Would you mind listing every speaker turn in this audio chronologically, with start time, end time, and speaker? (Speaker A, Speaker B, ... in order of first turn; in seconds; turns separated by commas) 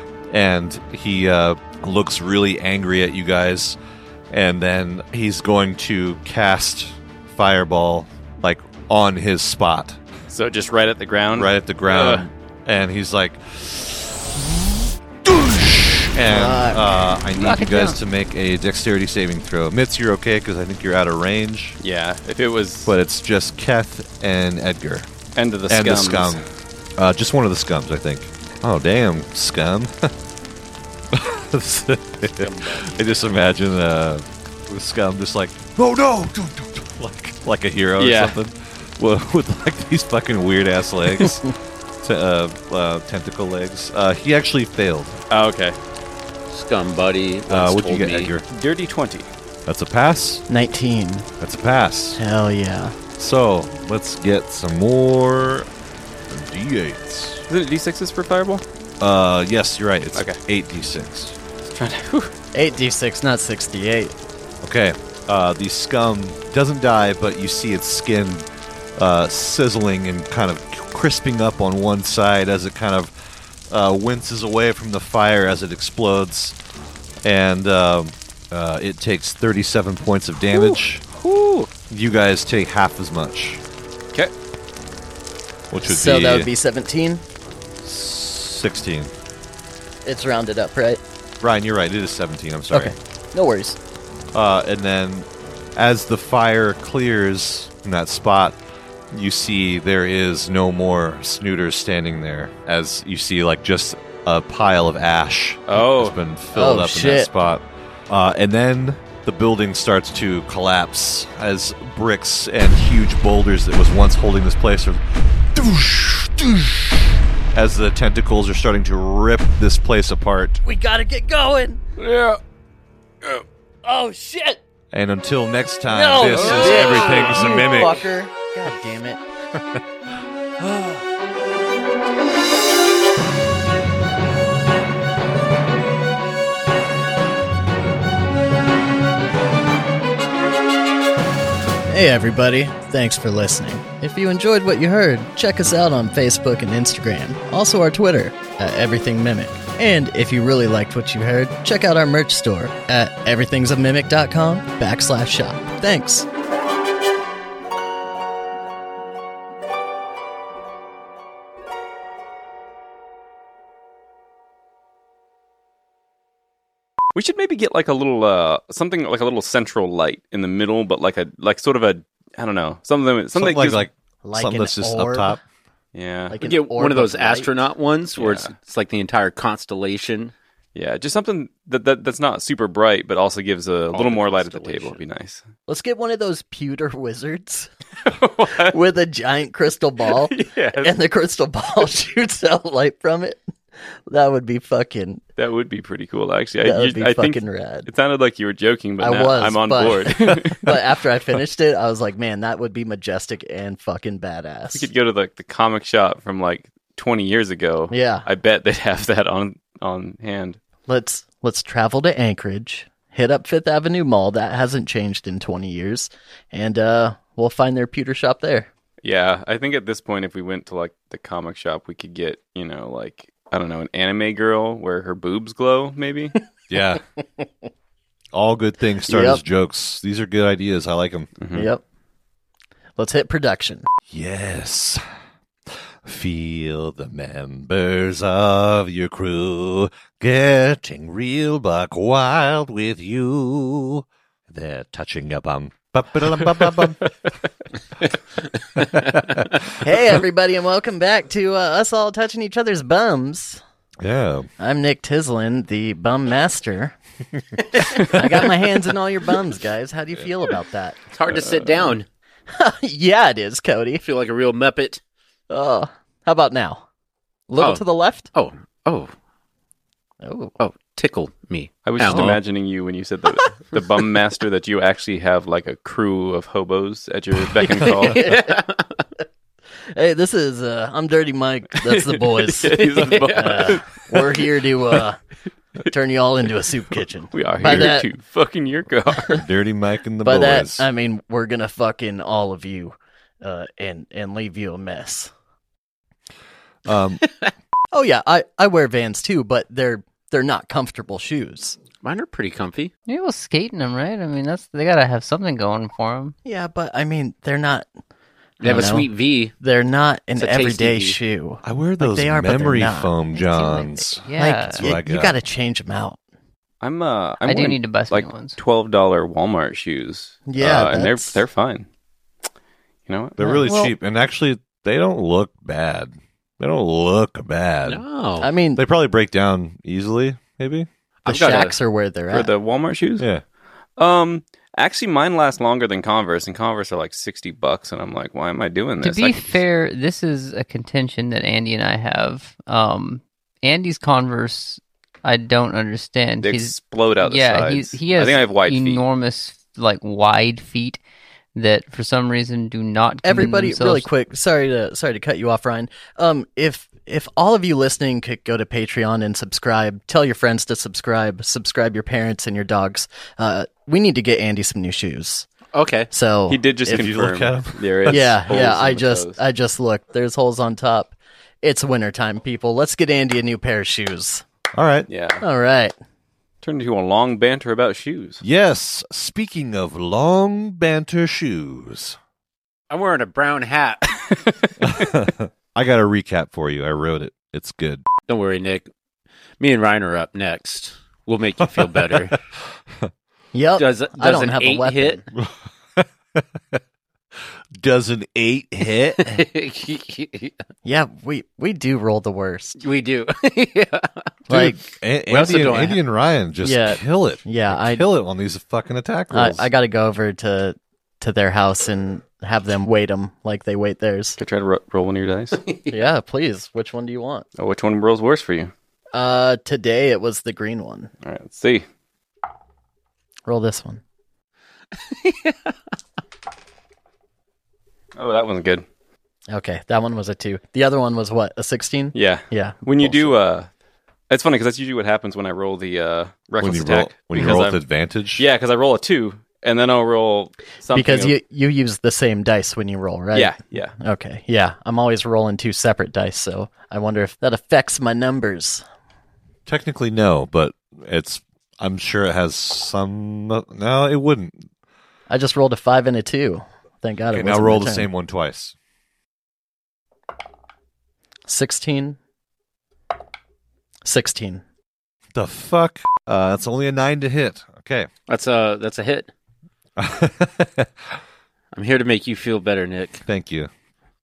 Speaker A: 0.3-3.8, Speaker A: 4.3-10.0, Speaker B: 10.3-12.2, Speaker A: 11.3-14.6, Speaker A: 15.2-21.8, Speaker C: 16.2-17.0, Speaker D: 17.4-18.0, Speaker B: 21.8-22.9, Speaker A: 22.9-25.1, Speaker B: 25.4-26.4, Speaker A: 25.7-26.4, Speaker A: 27.0-30.1, Speaker A: 31.1-45.2, Speaker E: 32.2-33.5, Speaker B: 38.0-38.4, Speaker B: 45.3-45.8, Speaker E: 46.5-48.3, Speaker A: 47.5-48.5, Speaker B: 48.5-49.3, Speaker A: 49.6-50.4, Speaker C: 50.5-51.3, Speaker A: 51.4-52.2, Speaker C: 52.2-53.0, Speaker A: 53.2-55.7, Speaker A: 56.3-57.4, Speaker B: 57.5-58.6, Speaker A: 59.0-61.4, Speaker B: 61.6-62.3, Speaker C: 62.5-64.1, Speaker A: 64.6-73.1, Speaker A: 73.7-76.6, Speaker A: 77.2-81.0, Speaker B: 80.5-81.7, Speaker A: 81.9-83.6, Speaker A: 85.7-86.5, Speaker C: 85.8-87.2, Speaker A: 87.8-89.1, Speaker C: 90.0-91.0, Speaker A: 91.4-92.9, Speaker C: 92.7-93.8, Speaker A: 94.3-98.6, Speaker A: 99.1-115.0, Speaker B: 105.7-106.1, Speaker C: 106.5-107.3, Speaker A: 115.5-120.6, Speaker C: 120.6-121.8, Speaker B: 122.0-122.4, Speaker C: 123.8-124.6, Speaker A: 124.9-128.1, Speaker C: 125.9-129.2, Speaker B: 126.2-127.4, Speaker C: 141.9-156.3, Speaker B: 167.1-173.9, Speaker A: 173.3-175.4, Speaker C: 174.2-175.4, Speaker B: 175.9-176.4, Speaker C: 176.3-177.6, Speaker E: 176.4-180.3, Speaker B: 178.2-178.5, Speaker B: 180.7-185.4, Speaker E: 183.9-185.0, Speaker C: 185.7-187.7, Speaker B: 188.1-188.8, Speaker C: 188.5-195.2, Speaker B: 190.2-190.9, Speaker B: 195.4-200.7, Speaker C: 196.6-197.9, Speaker C: 199.0-204.9, Speaker B: 204.7-210.6, Speaker C: 207.9-208.3, Speaker C: 210.9-218.7, Speaker B: 219.0-226.3, Speaker A: 226.7-227.0, Speaker A: 228.3-231.3, Speaker C: 229.1-229.4, Speaker B: 231.4-231.7, Speaker C: 231.5-231.8, Speaker C: 233.0-233.8, Speaker A: 234.1-235.0, Speaker A: 236.0-247.1, Speaker A: 249.0-249.5, Speaker C: 249.8-253.6, Speaker A: 254.0-254.5, Speaker C: 254.6-256.9, Speaker C: 257.9-261.0, Speaker E: 261.1-262.1, Speaker B: 261.3-261.9, Speaker C: 262.5-264.0, Speaker E: 264.0-265.0, Speaker C: 265.5-266.9, Speaker C: 267.5-268.3, Speaker E: 268.4-269.1, Speaker C: 270.2-270.6, Speaker E: 270.6-272.4, Speaker B: 271.9-278.2, Speaker E: 277.6-279.0, Speaker C: 277.9-278.6, Speaker C: 279.9-285.2, Speaker B: 281.8-284.5, Speaker E: 282.8-283.8, Speaker C: 285.9-288.1, Speaker B: 287.3-289.4, Speaker A: 287.6-287.9, Speaker A: 289.3-290.9, Speaker C: 290.2-295.3, Speaker A: 296.9-297.2, Speaker C: 297.9-301.8, Speaker E: 302.0-302.9, Speaker D: 303.1-306.3, Speaker C: 306.4-307.9, Speaker E: 308.6-309.5, Speaker C: 308.6-313.1, Speaker E: 310.4-311.2, Speaker A: 311.6-315.4, Speaker D: 313.3-314.9, Speaker C: 314.4-316.2, Speaker B: 316.8-321.9, Speaker D: 317.4-318.6, Speaker C: 320.4-321.4, Speaker B: 323.1-323.4, Speaker A: 323.4-328.0, Speaker D: 323.6-323.9, Speaker E: 327.9-328.5, Speaker C: 328.4-328.8, Speaker A: 328.7-330.9, Speaker C: 331.2-332.5, Speaker E: 331.3-331.7, Speaker B: 331.5-331.7, Speaker B: 332.3-333.3, Speaker B: 334.0-339.6, Speaker D: 339.0-351.0, Speaker B: 346.4-349.0, Speaker D: 351.6-354.1, Speaker C: 353.2-365.5, Speaker E: 365.7-366.1, Speaker C: 366.1-367.1, Speaker B: 366.5-369.4, Speaker A: 366.9-367.8, Speaker C: 368.1-374.4, Speaker A: 374.7-375.1, Speaker B: 375.1-375.4, Speaker C: 375.4-375.9, Speaker B: 376.6-378.4, Speaker A: 378.4-382.2, Speaker E: 382.9-384.4, Speaker A: 384.8-388.0, Speaker E: 388.3-388.9, Speaker E: 389.6-392.4, Speaker A: 391.8-392.3, Speaker C: 393.5-395.2, Speaker E: 393.8-395.2, Speaker A: 395.3-396.8, Speaker A: 397.8-399.4, Speaker E: 399.2-400.6, Speaker C: 400.9-402.8, Speaker E: 402.8-404.3, Speaker A: 404.5-409.7, Speaker C: 404.5-404.8, Speaker E: 405.3-406.0, Speaker C: 406.6-408.1, Speaker C: 409.3-414.4, Speaker B: 414.4-415.6, Speaker E: 415.6-415.9, Speaker C: 415.9-417.4, Speaker B: 417.6-418.7, Speaker C: 419.1-421.1, Speaker B: 421.2-421.9, Speaker C: 423.4-424.0, Speaker E: 425.0-425.7, Speaker B: 428.2-428.9, Speaker C: 429.5-433.4, Speaker B: 432.1-433.7, Speaker B: 434.3-437.8, Speaker A: 436.6-438.4, Speaker B: 438.4-441.3, Speaker C: 440.9-448.8, Speaker B: 443.3-443.9, Speaker A: 449.7-454.6, Speaker C: 455.3-458.1, Speaker A: 457.3-458.7, Speaker C: 461.5-462.2, Speaker C: 464.1-464.6, Speaker A: 465.4-468.1, Speaker E: 468.3-469.3, Speaker A: 470.0-470.9, Speaker E: 471.7-473.2, Speaker A: 473.3-473.7